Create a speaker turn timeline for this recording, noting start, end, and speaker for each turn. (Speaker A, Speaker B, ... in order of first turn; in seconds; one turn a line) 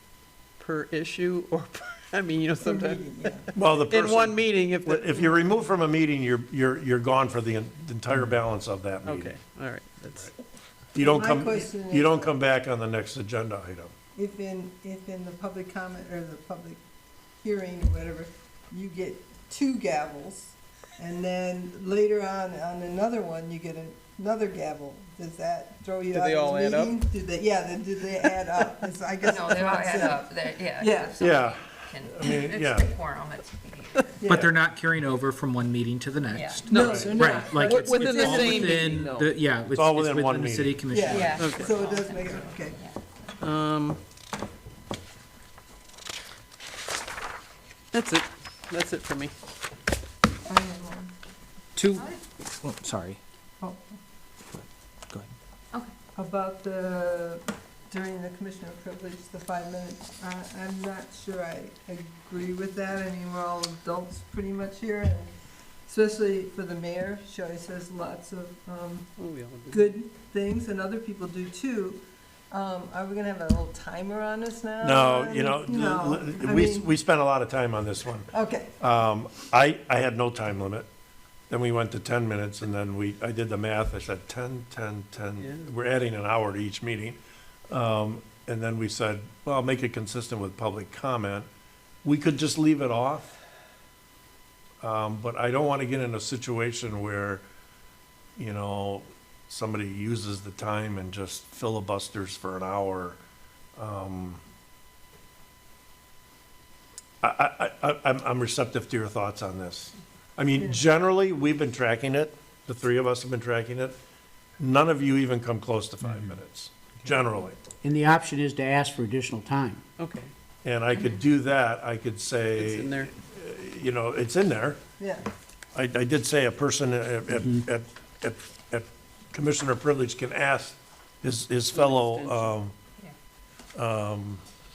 Speaker A: 0.6-5.2
Speaker B: 2.6-3.5
Speaker C: 3.5-9.3
Speaker A: 9.0-10.3
Speaker C: 10.9-13.9
Speaker B: 10.9-12.3
Speaker B: 14.1-16.8
Speaker B: 17.4-30.2
Speaker A: 26.1-26.9
Speaker D: 29.2-34.3
Speaker B: 30.8-31.2
Speaker C: 31.2-32.9
Speaker B: 34.2-34.5
Speaker E: 34.3-41.6
Speaker D: 36.3-36.8
Speaker B: 36.7-38.9
Speaker A: 36.7-39.3
Speaker C: 36.7-37.2
Speaker C: 39.7-41.1
Speaker B: 40.9-42.8
Speaker D: 41.1-43.0
Speaker A: 41.4-41.8
Speaker A: 43.4-44.0
Speaker A: 47.9-49.3
Speaker B: 50.4-51.1
Speaker E: 51.8-52.1
Speaker E: 52.6-53.2
Speaker B: 53.6-53.9
Speaker E: 54.5-55.3
Speaker B: 56.1-65.3
Speaker B: 65.9-69.1
Speaker A: 69.2-69.9
Speaker B: 69.7-76.9
Speaker C: 74.8-80.9
Speaker B: 78.3-78.7
Speaker C: 81.5-87.2
Speaker A: 85.4-85.7
Speaker C: 87.7-91.5
Speaker C: 92.0-93.3
Speaker C: 94.8-97.4
Speaker C: 98.4-103.2
Speaker C: 103.8-104.4
Speaker C: 107.2-113.9
Speaker C: 114.6-117.6
Speaker F: 117.8-119.8
Speaker A: 120.0-120.3
Speaker C: 120.6-124.8
Speaker A: 122.5-123.1
Speaker B: 125.0-125.2
Speaker C: 125.7-132.7
Speaker A: 131.7-132.5
Speaker C: 133.7-134.4